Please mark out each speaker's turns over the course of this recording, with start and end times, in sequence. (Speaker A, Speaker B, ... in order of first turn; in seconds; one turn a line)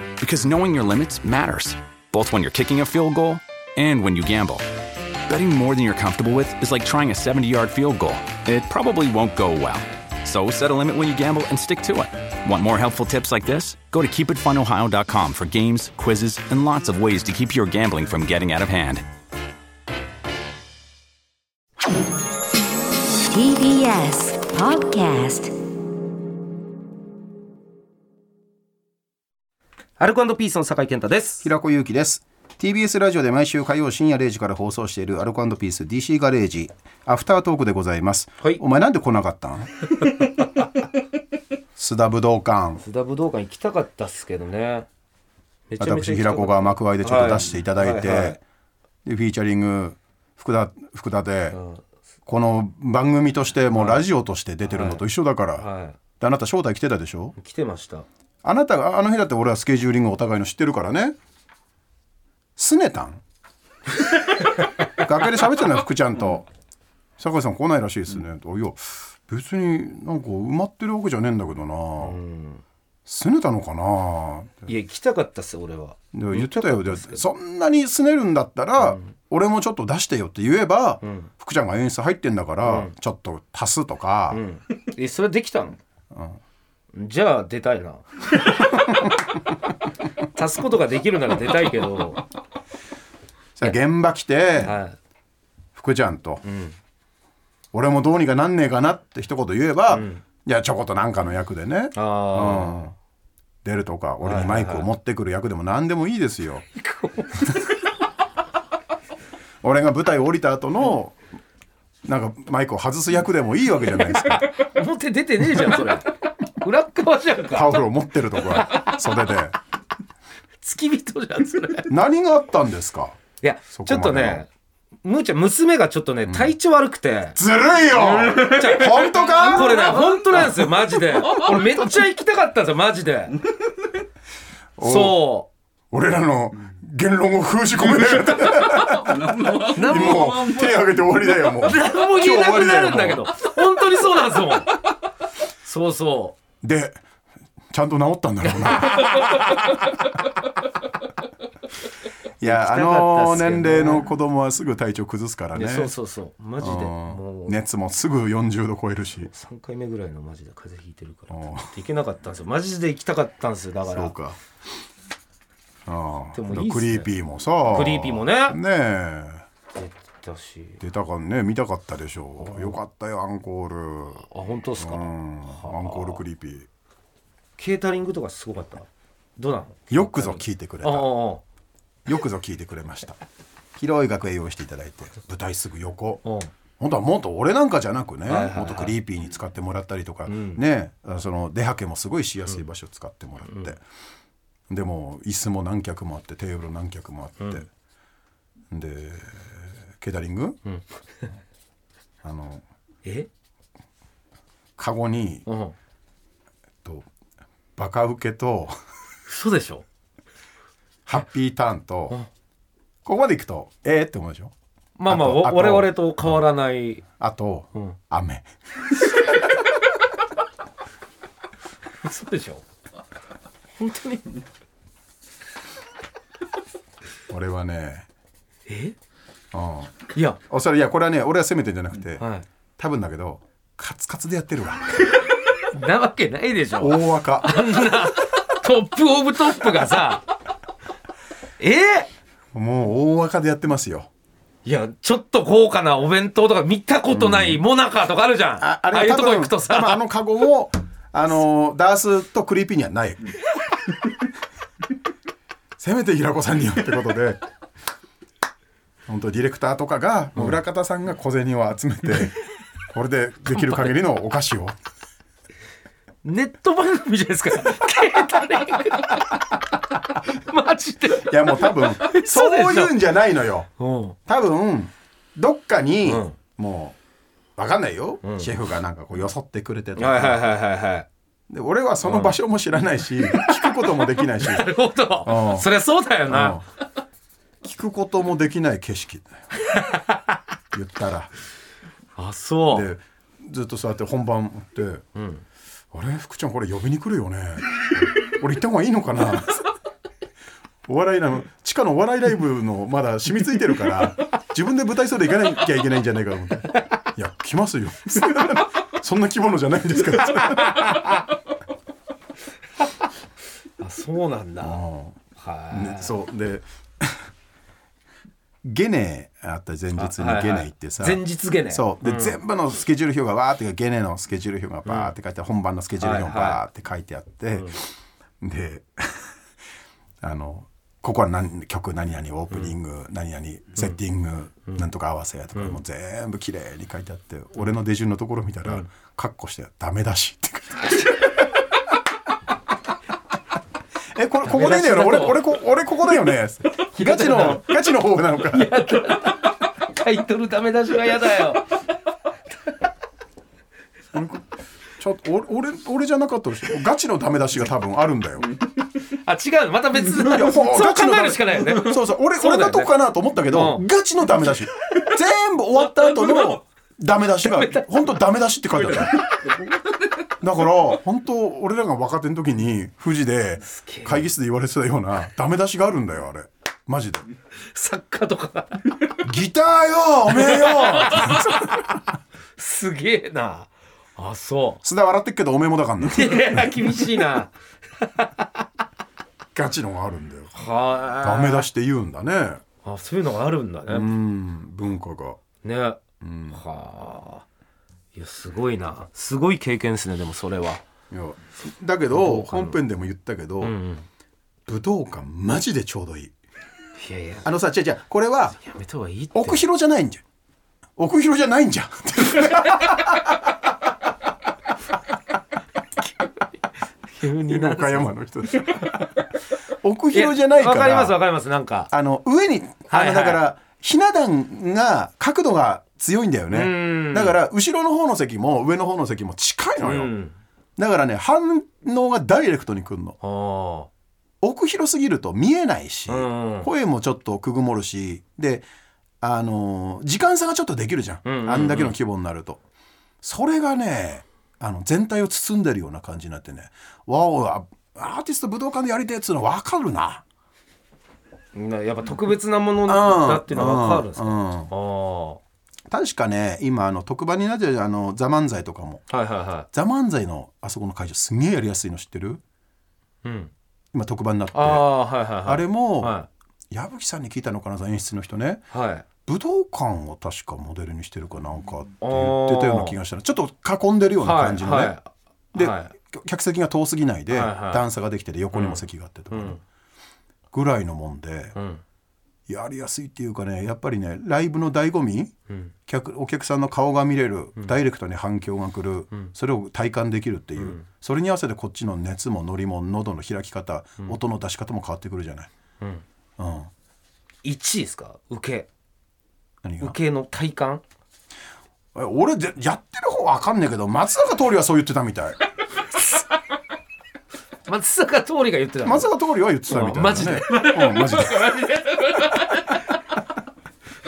Speaker A: 0.2-4.6
Speaker A: 5.2-19.0
Speaker B: 23.2-25.5
Speaker C: 30.0-31.5
Speaker D: 31.4-39.7
Speaker C: 40.0-40.6
Speaker D: 41.8-42.8
Speaker C: 42.8-44.9
Speaker C: 45.7-48.4
Speaker D: 45.8-48.4
Speaker D: 49.0-51.6
Speaker C: 51.5-51.8
Speaker D: 52.2-55.6
Speaker C: 53.7-54.0
Speaker C: 54.6-55.0
Speaker C: 55.6-56.0
Speaker D: 56.2-57.4
Speaker C: 57.4-58.0
Speaker D: 58.4-61.1
Speaker D: 62.5-63.2
Speaker D: 64.8-66.5
Speaker D: 67.2-72.2
Speaker C: 72.0-72.6
Speaker D: 73.0-74.7
Speaker C: 74.7-77.2
Speaker D: 76.1-84.4
Speaker C: 81.0-81.3
Speaker C: 82.6-82.9
Speaker C: 84.3-85.8
Speaker D: 86.1-86.4
Speaker C: 86.9-88.9
Speaker D: 88.8-89.2
Speaker C: 90.3-92.2
Speaker D: 93.5-94.8
Speaker C: 94.6-95.0
Speaker D: 95.7-96.4
Speaker C: 96.4-96.8
Speaker D: 97.7-102.9
Speaker C: 99.9-100.2
Speaker C: 101.9-102.9
Speaker D: 103.6-106.6
Speaker C: 104.2-104.9
Speaker C: 106.8-107.7
Speaker D: 109.6-111.2
Speaker D: 112.0-114.5
Speaker C: 114.4-117.8
Speaker D: 117.5-119.6
Speaker C: 120.6-121.9
Speaker D: 121.9-123.2
Speaker C: 123.4-124.5
Speaker D: 123.7-124.4
Speaker C: 125.0-133.4
Speaker D: 126.3-126.5
Speaker D: 127.3-131.7
Speaker D: 134.8-135.3
Speaker C: 134.8-135.5
Speaker D: 135.9-143.3
Speaker C: 139.4-140.5
Speaker C: 141.6-144.8
Speaker C: 145.6-146.4
Speaker D: 146.6-147.0
Speaker D: 147.7-150.0
Speaker D: 152.4-155.9
Speaker C: 152.4-154.1
Speaker C: 155.5-157.6
Speaker D: 156.6-159.3
Speaker C: 159.2-164.1
Speaker D: 161.3-161.7
Speaker D: 163.9-164.4
Speaker D: 165.9-169.4
Speaker C: 166.3-167.1
Speaker C: 167.7-168.6
Speaker C: 169.7-170.8
Speaker D: 170.8-174.3
Speaker C: 174.3-176.2
Speaker D: 174.8-176.7
Speaker C: 177.6-181.4
Speaker D: 179.9-181.2
Speaker D: 182.1-183.2
Speaker D: 183.8-186.2
Speaker C: 186.2-186.5
Speaker D: 186.8-193.8
Speaker C: 188.3-188.9
Speaker C: 190.3-190.6
Speaker D: 194.7-197.7
Speaker D: 198.7-200.6
Speaker D: 202.2-202.6
Speaker D: 204.8-205.4
Speaker C: 205.4-205.7
Speaker D: 207.8-208.8
Speaker C: 209.3-209.8
Speaker D: 211.1-212.2
Speaker D: 213.0-214.5
Speaker C: 215.0-217.0
Speaker D: 215.1-216.0
Speaker D: 217.2-218.5
Speaker C: 222.0-222.6
Speaker C: 223.8-224.3
Speaker D: 227.3-228.1
Speaker C: 228.7-228.9
Speaker D: 229.5-232.2
Speaker C: 230.1-230.4
Speaker C: 232.2-232.4
Speaker D: 232.8-235.0
Speaker C: 235.6-240.2
Speaker D: 236.8-237.8
Speaker C: 241.6-242.1
Speaker D: 242.5-244.1
Speaker C: 244.6-250.0
Speaker D: 247.1-247.6
Speaker D: 248.6-253.3
Speaker D: 255.8-257.4
Speaker D: 259.1-262.4
Speaker D: 262.9-264.7
Speaker C: 266.2-273.0
Speaker D: 271.1-273.7
Speaker C: 273.8-274.2
Speaker D: 274.3-277.0
Speaker C: 276.0-276.4
Speaker D: 277.6-280.5
Speaker C: 278.2-278.5
Speaker C: 280.0-281.1
Speaker D: 281.5-285.7
Speaker C: 282.0-282.4
Speaker C: 283.4-283.8
Speaker C: 284.4-286.6
Speaker D: 286.3-286.6
Speaker D: 287.6-289.4
Speaker C: 289.7-290.2
Speaker D: 290.7-291.3
Speaker C: 292.1-292.9
Speaker D: 292.7-295.0
Speaker C: 295.1-295.4
Speaker D: 295.9-299.6
Speaker D: 300.9-310.9
Speaker C: 310.8-311.1
Speaker C: 313.8-314.8
Speaker D: 314.6-315.2
Speaker C: 315.4-316.1
Speaker D: 315.7-317.2
Speaker D: 318.6-327.9
Speaker C: 319.9-322.4
Speaker C: 324.9-325.1
Speaker C: 326.0-326.6
Speaker D: 328.4-329.3
Speaker D: 330.2-341.2
Speaker C: 335.5-335.8
Speaker D: 344.1-348.8
Speaker C: 344.4-345.5
Speaker C: 346.8-347.9
Speaker C: 348.5-351.7
Speaker D: 354.1-358.5
Speaker C: 359.0-362.9
Speaker D: 360.1-369.1
Speaker C: 363.5-363.9
Speaker C: 366.1-366.6
Speaker C: 367.4-368.2
Speaker C: 369.0-369.6
Speaker D: 370.4-377.2
Speaker C: 373.7-374.3
Speaker C: 377.7-379.2
Speaker D: 379.2-381.9
Speaker C: 380.3-381.9
Speaker C: 382.6-384.8
Speaker D: 384.8-386.7
Speaker C: 386.0-388.4
Speaker D: 389.5-390.5
Speaker C: 390.5-391.7
Speaker D: 391.2-392.6
Speaker C: 392.8-394.1
Speaker D: 393.9-395.4
Speaker C: 395.6-396.0
Speaker D: 396.2-396.6
Speaker C: 396.5-397.4
Speaker C: 398.1-400.8
Speaker D: 401.1-403.7
Speaker C: 402.1-402.8
Speaker C: 403.6-404.1
Speaker D: 404.7-406.3
Speaker C: 407.0-407.5
Speaker D: 407.4-408.6
Speaker C: 408.6-409.6
Speaker D: 409.3-410.2
Speaker D: 411.0-413.4
Speaker C: 417.1-418.1
Speaker D: 417.3-419.1
Speaker D: 419.8-421.2
Speaker C: 420.1-421.9
Speaker D: 421.9-430.1
Speaker C: 422.9-423.4
Speaker C: 426.5-427.4
Speaker C: 429.8-430.4
Speaker D: 430.8-433.2
Speaker C: 433.2-433.9
Speaker D: 434.4-438.6
Speaker C: 436.1-436.7
Speaker D: 439.2-442.6
Speaker C: 441.2-441.9
Speaker D: 443.2-450.2
Speaker C: 451.5-455.4
Speaker D: 452.9-454.7
Speaker D: 455.9-459.1
Speaker C: 459.1-459.7
Speaker D: 459.7-462.4
Speaker C: 463.2-463.5
Speaker D: 463.9-466.2
Speaker C: 464.5-466.3
Speaker D: 466.7-468.6
Speaker C: 468.7-469.1
Speaker D: 469.2-475.0
Speaker C: 472.0-473.0
Speaker C: 474.2-475.9
Speaker D: 475.5-479.6
Speaker C: 477.3-477.9
Speaker C: 478.5-479.6
Speaker D: 480.5-481.6
Speaker C: 481.5-481.8
Speaker D: 482.5-485.3
Speaker D: 485.9-495.5
Speaker C: 490.6-490.8
Speaker D: 496.4-496.7
Speaker C: 497.4-498.7
Speaker D: 499.6-499.9
Speaker C: 499.8-500.8
Speaker D: 501.9-505.4
Speaker C: 507.6-509.1
Speaker D: 508.8-511.6
Speaker C: 509.6-512.7